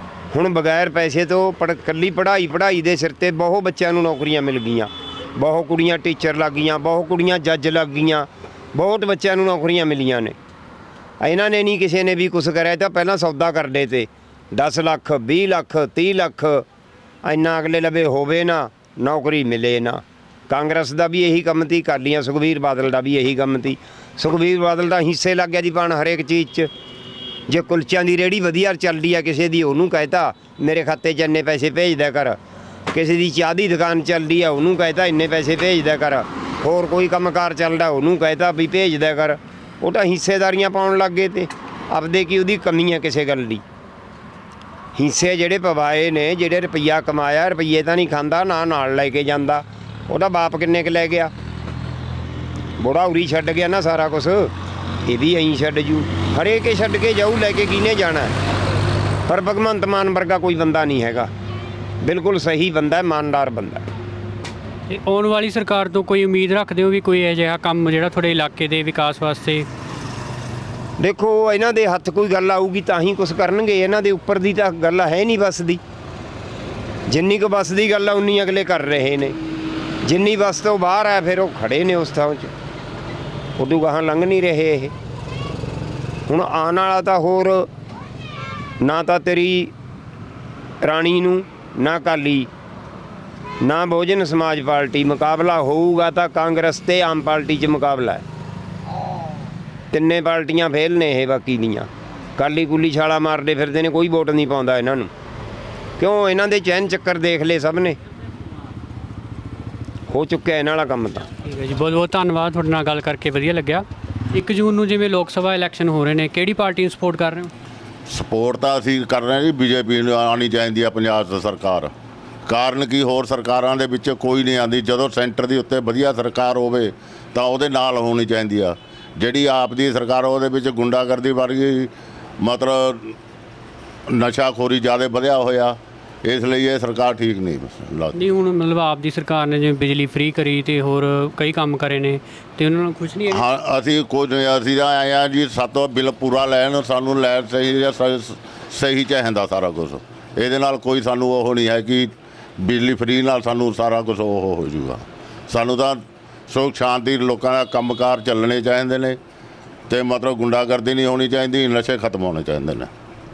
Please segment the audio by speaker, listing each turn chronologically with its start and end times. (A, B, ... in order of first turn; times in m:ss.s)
0:00.3-0:10.4 A
0:11.2-0:16.6 A
0:17.2-0:26.7 A
0:27.5-0:32.4 A
0:32.9-0:43.6 A
0:45.0-0:51.3 A
0:52.8-0:54.5 A
0:55.0-0:58.4 A
0:59.3-1:01.3 A
1:02.0-1:03.9 A
1:04.9-1:09.6 B
1:11.0-1:15.8 A
1:17.1-1:19.3 A
1:20.0-1:22.5 A
1:23.6-1:24.9 A
1:26.3-1:27.7 A
1:28.8-1:29.7 A
1:30.8-1:32.5 A
1:33.6-1:38.2 A
1:39.9-1:45.1 A
1:46.0-1:48.0 A
1:50.1-1:51.3 A
1:51.4-1:57.5 B
1:58.1-2:01.9 C
2:02.5-2:13.2 C
2:14.1-2:18.2 C
2:18.1-2:23.4 B
2:23.3-2:39.2 C
2:39.9-2:42.9 C